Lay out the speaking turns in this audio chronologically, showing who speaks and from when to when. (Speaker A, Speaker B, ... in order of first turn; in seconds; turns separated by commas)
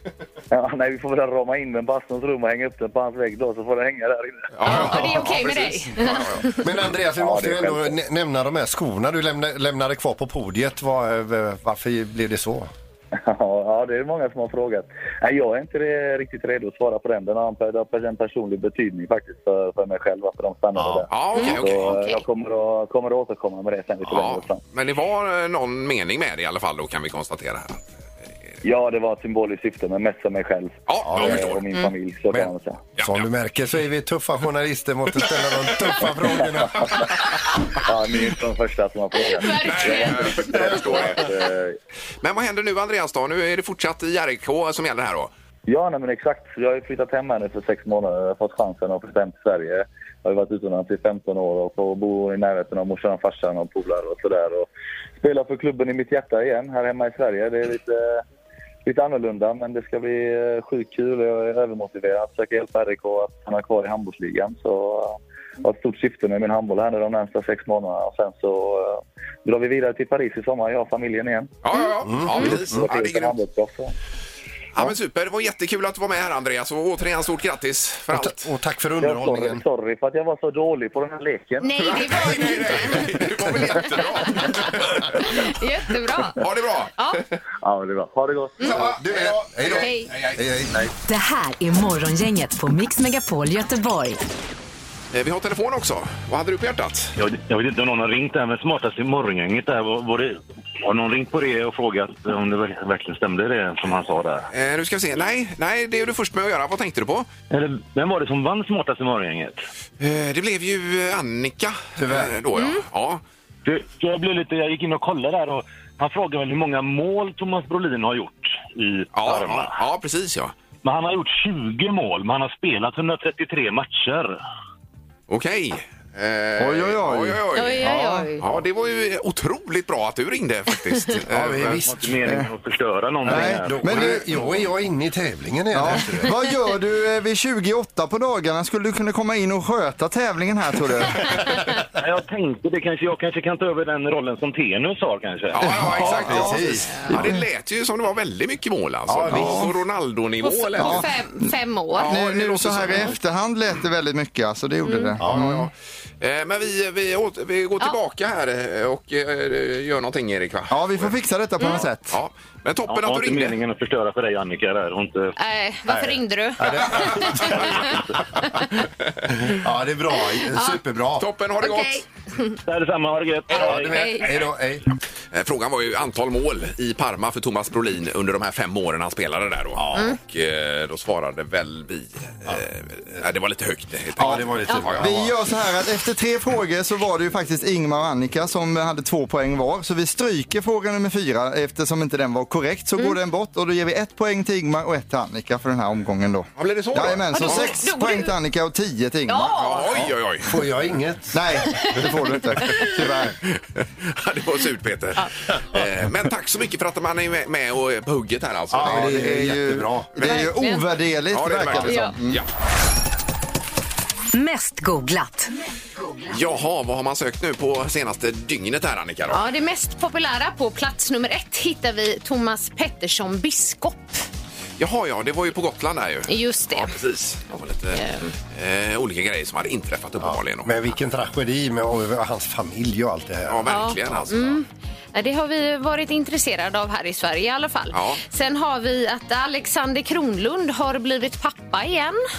Speaker A: 0.5-4.5, Speaker B: 4.5-6.6, Speaker C: 4.6-6.6, Speaker D: 4.7-5.2, Speaker D: 6.6-12.7, Speaker A: 7.1-7.9, Speaker A: 13.1-24.6, Speaker D: 20.8-21.8, Speaker B: 21.1-22.0, Speaker C: 21.3-22.2, Speaker B: 24.1-27.8, Speaker A: 28.6-32.8, Speaker B: 30.9-31.6, Speaker D: 31.0-31.4, Speaker D: 32.3-37.1, Speaker B: 33.0-33.2, Speaker A: 37.8-41.8, Speaker C: 39.2-41.0, Speaker B: 39.5-41.3, Speaker B: 42.2-45.3, Speaker A: 45.7-58.2, Speaker A: 58.8-71.6, Speaker B: 71.6-73.4, Speaker D: 72.0-72.9, Speaker A: 72.7-73.9, Speaker B: 74.7-78.5, Speaker D: 78.1-79.6, Speaker A: 79.0-81.7, Speaker C: 81.6-83.2, Speaker B: 81.8-85.3, Speaker C: 84.3-87.2, Speaker B: 86.3-87.3, Speaker A: 87.6-88.7, Speaker C: 88.6-88.8, Speaker B: 88.6-90.4, Speaker D: 88.7-90.8, Speaker C: 89.8-90.1, Speaker E: 91.0-94.2, Speaker B: 95.1-97.1, Speaker F: 97.2-104.5, Speaker B: 104.5-107.3, Speaker F: 107.5-109.6, Speaker B: 110.0-113.2, Speaker D: 112.0-112.4, Speaker C: 112.5-112.8, Speaker F: 113.6-119.8, Speaker B: 119.1-120.5, Speaker F: 120.8-124.4, Speaker B: 125.3-131.8, Speaker G: 126.6-128.3, Speaker C: 127.5-128.4, Speaker D: 131.3-132.1, Speaker F: 131.7-133.9, Speaker G: 133.2-134.2, Speaker D: 133.2-136.4, Speaker G: 135.7-141.5, Speaker F: 142.0-146.3, Speaker B: 145.5-151.1, Speaker G: 145.6-147.4, Speaker D: 145.9-147.3, Speaker D: 149.1-149.7, Speaker G: 149.3-149.7, Speaker C: 150.4-152.1, Speaker G: 150.8-155.7, Speaker B: 152.0-153.2, Speaker C: 154.8-155.1, Speaker D: 155.2-155.6, Speaker B: 155.3-161.2, Speaker G: 160.7-162.2, Speaker C: 161.6-161.8, Speaker B: 162.1-163.6, Speaker F: 162.9-165.3, Speaker C: 165.4-168.0, Speaker D: 165.9-167.8, Speaker B: 166.9-167.7, Speaker D: 169.4-171.2, Speaker C: 170.4-170.8, Speaker B: 171.2-172.0, Speaker C: 171.6-172.6, Speaker F: 172.6-174.1, Speaker D: 173.5-174.8, Speaker C: 173.7-174.4, Speaker B: 175.3-185.1, Speaker D: 179.8-180.2, Speaker D: 184.2-185.3, Speaker G: 185.0-199.5, Speaker B: 196.6-197.8, Speaker C: 197.3-198.3, Speaker C: 199.3-200.0, Speaker B: 199.5-200.5, Speaker D: 199.9-201.4, Speaker G: 201.3-203.4, Speaker C: 201.8-202.1, Speaker C: 202.6-202.9, Speaker B: 203.4-209.2, Speaker D: 208.7-210.1, Speaker G: 208.8-212.4, Speaker C: 210.2-210.9, Speaker B: 211.3-212.5, Speaker C: 211.8-212.2, Speaker E: 214.3-215.5, Speaker B: 216.2-219.4, Speaker C: 219.3-224.2, Speaker B: 224.8-230.8, Speaker C: 226.3-226.9, Speaker C: 227.9-228.3, Speaker D: 230.2-234.5, Speaker B: 233.5-234.6, Speaker C: 233.7-242.2, Speaker B: 237.9-238.2